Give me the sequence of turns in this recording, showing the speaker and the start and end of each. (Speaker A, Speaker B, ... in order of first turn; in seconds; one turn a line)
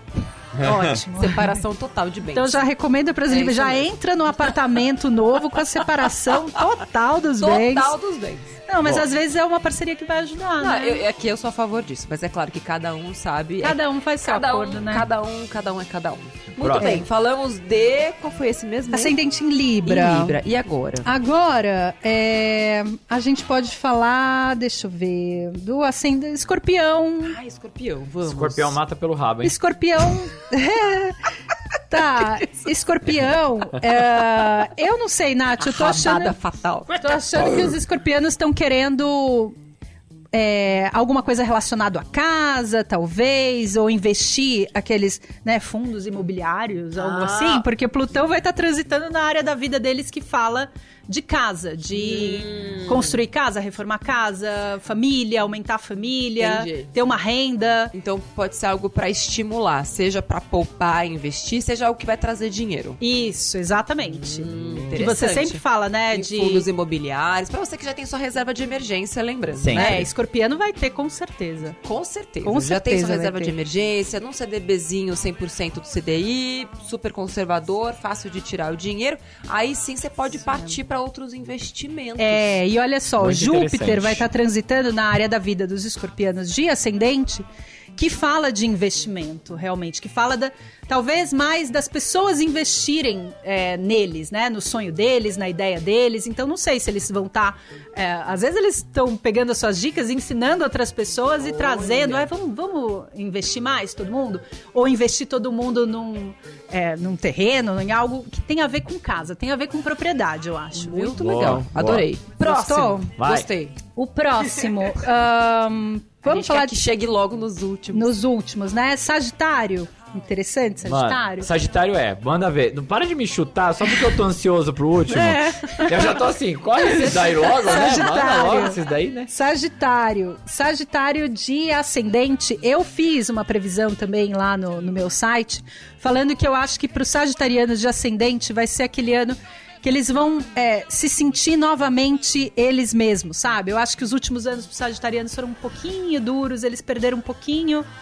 Speaker A: 0.6-1.0
Speaker B: 0.6-1.6
Speaker C: 1.1-2.6
Speaker B: 2.3-7.9
Speaker C: 3.3-3.9
Speaker C: 7.4-8.5
Speaker B: 8.7-11.0
Speaker C: 10.6-19.1
Speaker B: 13.6-15.1
Speaker A: 16.6-17.0
Speaker B: 16.7-17.1
Speaker B: 18.9-20.4
Speaker C: 19.9-21.1
Speaker B: 21.0-27.4
Speaker C: 27.2-28.8
Speaker A: 28.2-29.5
Speaker B: 29.4-31.2
Speaker B: 31.9-36.3
Speaker C: 35.6-37.0
Speaker B: 37.0-39.5
Speaker A: 37.4-37.7
Speaker B: 40.3-57.9
Speaker C: 47.0-47.6
Speaker C: 51.9-53.2
Speaker C: 56.4-56.9
Speaker C: 57.9-63.0
Speaker B: 63.0-66.7
Speaker C: 64.2-70.0
Speaker A: 69.6-70.1
Speaker B: 69.7-71.8
Speaker C: 71.8-82.6
Speaker B: 72.4-73.5
Speaker B: 80.4-80.8
Speaker B: 82.2-111.2
Speaker A: 83.2-84.2
Speaker C: 101.4-102.3
Speaker C: 110.7-113.8
Speaker A: 111.2-112.1
Speaker B: 112.4-113.1
Speaker A: 113.2-113.5
Speaker B: 113.9-116.8
Speaker C: 116.2-118.1
Speaker B: 117.9-121.5
Speaker A: 120.8-129.3
Speaker C: 125.2-125.9
Speaker B: 125.5-125.9
Speaker B: 126.8-147.9
Speaker C: 127.1-128.3